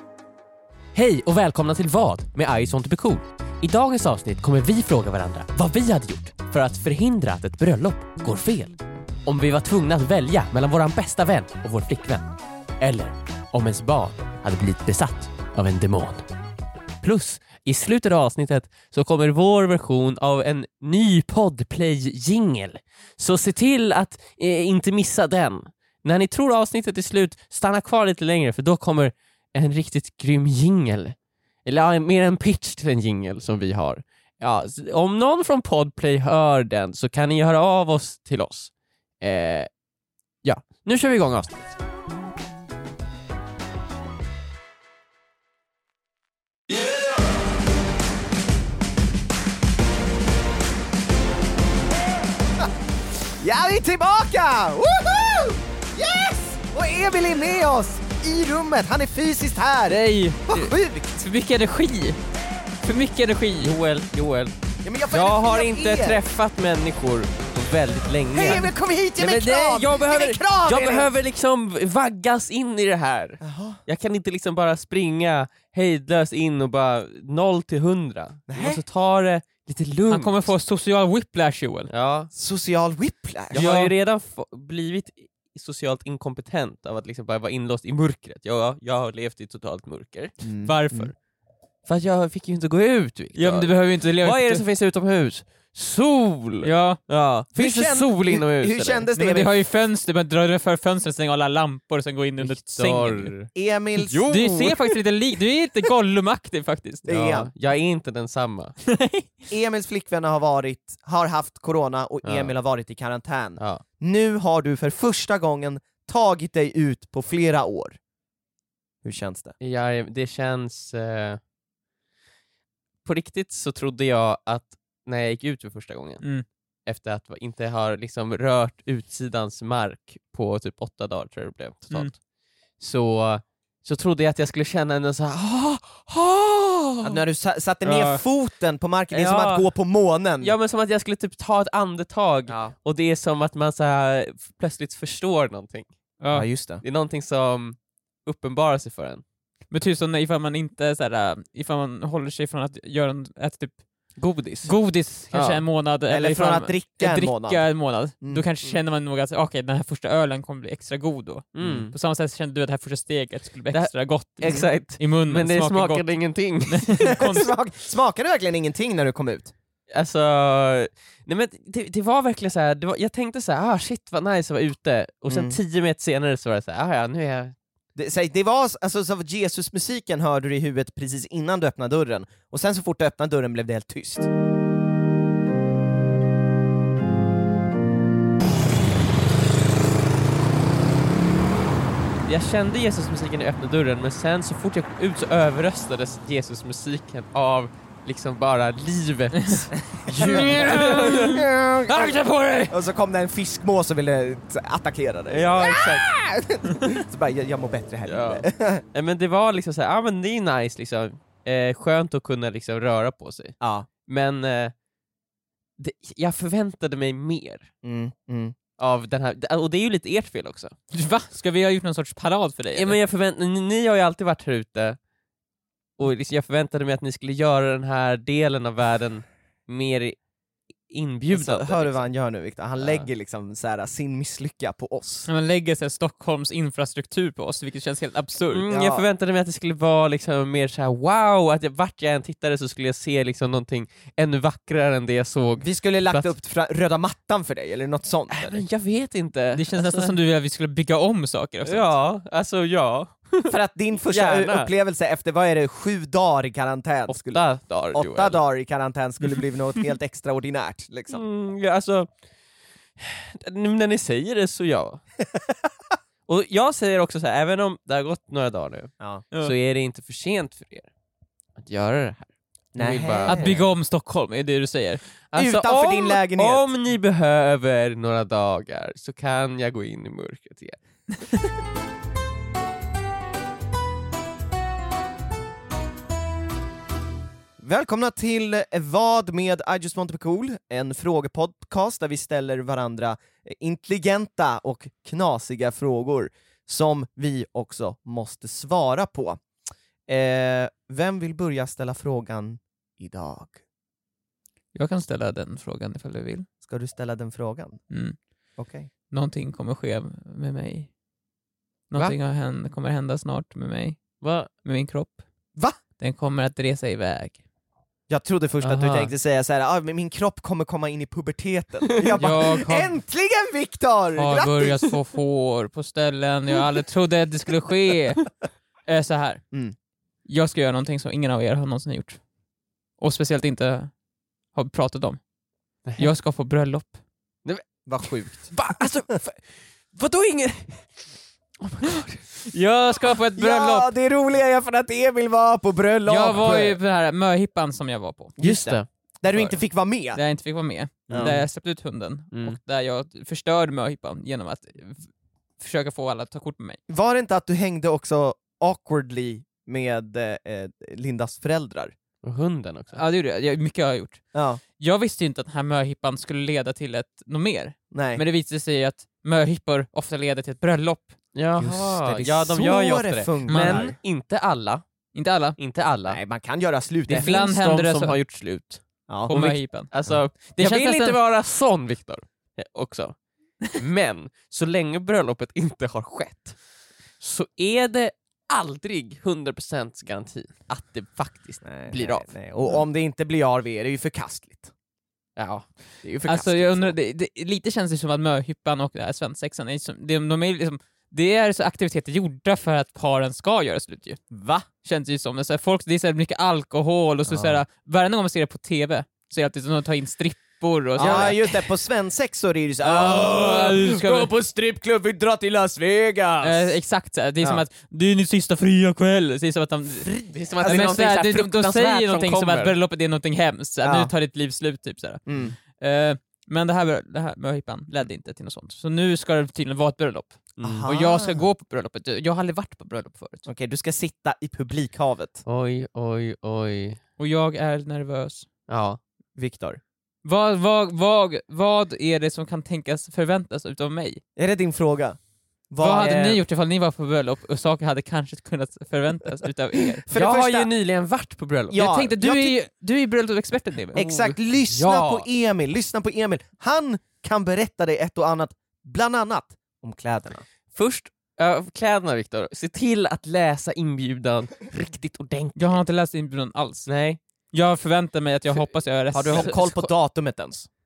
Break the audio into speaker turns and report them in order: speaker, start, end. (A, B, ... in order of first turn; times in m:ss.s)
0:00.9-0:12.3 A
0:12.8-0:16.3 A
0:17.0-0:39.7 A
0:40.4-0:41.6 A
0:53.4-1:01.2 B
0:59.9-1:02.2 C
1:02.8-1:03.7 C
1:03.6-1:04.5 A
1:04.8-1:06.2 B
1:05.1-1:20.5 A
1:08.3-1:11.1 B
1:13.4-1:13.8 B
1:18.5-1:18.8 B
1:20.1-1:21.9 C
1:21.9-1:22.3 A
1:22.3-1:23.7 B
1:23.5-1:30.3 A
1:23.6-1:23.9 C
1:30.4-1:31.1 B
1:30.6-1:31.1 C
1:31.9-1:39.1 A
1:33.4-1:34.6 C
1:36.6-1:37.0 C
1:37.6-1:39.5 B
1:39.2-1:43.3 C
1:42.4-1:45.0 A
1:43.6-1:44.2 B
1:44.2-1:47.1 C
1:47.1-1:47.5 B
1:47.1-1:48.8 A
1:48.9-1:49.3 C
1:49.5-1:58.0 B
1:52.2-1:52.5 A
1:59.0-1:59.5 B
1:59.6-2:01.4 A
2:03.0-2:06.2 A
2:06.9-2:12.2 A
2:12.8-2:17.2 A
2:17.0-2:20.5 B
2:17.8-2:18.2 C
2:19.1-2:19.7 A
2:20.4-2:25.9 A
2:22.5-2:22.7 B
2:26.2-2:26.5 C
2:26.3-2:26.8 B
2:26.8-2:29.2 A
2:29.7-2:33.8 C
2:34.2-2:34.7 A
2:34.6-2:46.2 C
2:35.3-2:35.6 A
2:36.1-2:37.6 B
2:41.6-2:41.9 A
2:41.6-2:41.9 B
2:43.7-2:47.0 A
2:46.7-2:47.5 C
2:47.0-2:49.5 B
2:49.9-2:57.6 A
2:55.3-2:55.6 B
2:58.0-3:04.3 B
3:12.2-3:21.5 A
3:20.0-3:28.8 B
3:20.1-3:22.7 C
3:25.3-3:26.1 A
3:28.1-3:34.7 A
3:33.6-3:33.9 B
3:35.8-3:37.7 A
3:37.8-3:38.6 B
3:38.8-3:40.8 A
3:40.9-3:43.0 C
3:42.7-3:45.0 A
3:46.0-3:50.2 A
3:50.9-3:52.0 A
3:51.3-3:55.3 B
3:52.8-3:53.1 A
3:55.3-3:58.6 C
3:58.5-4:06.3 A
3:58.7-3:59.0 B
4:05.6-4:08.6 B
4:08.3-4:10.1 A
4:09.5-4:11.9 C
4:11.6-4:14.7 A
4:13.5-4:17.4 B
4:17.1-4:18.4 A
4:17.9-4:21.2 B
4:21.1-4:22.1 A
4:23.0-4:25.0 A
4:26.3-4:30.9 A
4:31.6-4:33.4 A
4:32.8-4:33.6 B
4:33.3-4:35.0 C
4:35.3-4:40.8 A
4:35.4-4:36.7 B
4:47.6-4:59.4 B
5:00.1-5:03.6 B
5:04.8-5:06.5 C
5:06.6-5:07.8 B
5:07.9-5:08.2 C
5:08.6-5:08.9 B
5:09.1-5:10.9 C
5:11.9-5:14.0 C
5:14.2-5:14.5 A
5:14.6-5:15.2 C
5:16.0-5:17.4 C
5:18.1-5:24.9 B
5:18.6-5:19.1 A
5:22.2-5:23.0 C
5:24.2-5:28.2 C
5:28.9-5:29.4 C
5:30.3-5:32.2 C
5:33.0-5:33.9 C
5:34.5-5:35.2 C
5:36.0-5:37.0 C
5:37.9-5:38.6 B
5:38.3-5:40.9 A
5:41.6-5:42.4 A
5:42.5-5:43.9 C
5:43.4-5:46.8 B
5:46.1-5:48.4 C
5:48.4-5:50.2 B
5:48.4-5:48.9 A
5:49.3-5:49.6 C
5:50.1-5:55.1 C
5:51.1-5:51.4 B
5:51.1-5:51.4 A
5:52.3-5:52.6 A
5:55.6-5:56.8 C
5:56.9-6:01.9 B
6:02.2-6:03.0 A
6:03.0-6:04.2 C
6:04.3-6:04.6 B
6:04.8-6:11.2 C
6:07.9-6:08.2 B
6:11.3-6:14.8 A
6:11.6-6:14.0 B
6:13.5-6:13.9 C
6:15.1-6:15.6 C
6:15.6-6:16.2 A
6:16.1-6:17.4 B
6:17.1-6:23.2 A
6:17.1-6:18.2 C
6:19.1-6:19.3 B
6:19.3-6:19.9 C
6:20.5-6:21.2 C
6:23.8-6:26.6 A
6:27.2-6:32.4 A
6:31.6-6:34.7 B
6:35.4-6:36.8 A
6:36.2-6:44.2 C
6:44.3-6:44.7 B
6:44.8-6:51.4 C
6:47.3-6:47.6 B
6:51.0-6:51.6 A
6:51.0-6:56.8 B
6:52.9-6:54.3 C
6:53.0-6:54.1 A
6:56.4-7:00.1 C
7:00.1-7:02.8 A
7:00.6-7:13.5 C
7:00.6-7:01.0 B
7:03.8-7:04.1 B
7:05.3-7:05.6 B
7:10.6-7:10.9 A
7:10.6-7:11.4 B
7:13.5-7:15.4 B
7:15.5-7:17.0 A
7:17.2-7:18.5 C
7:18.7-7:19.0 A
7:19.4-7:19.8 B
7:20.2-7:24.2 C
7:24.4-7:25.2 B
7:25.7-7:26.4 B
7:25.8-7:30.0 C
7:26.0-7:26.3 A
7:30.0-7:30.7 B
7:30.1-7:31.8 A
7:31.7-7:32.6 B
7:31.7-7:34.1 C
7:34.0-7:40.4 B
7:34.0-7:35.3 A
7:40.8-7:45.8 A
7:45.6-7:46.9 C
7:46.9-7:47.2 A
7:47.5-7:49.6 C
7:49.1-7:50.7 B
7:49.3-7:49.9 A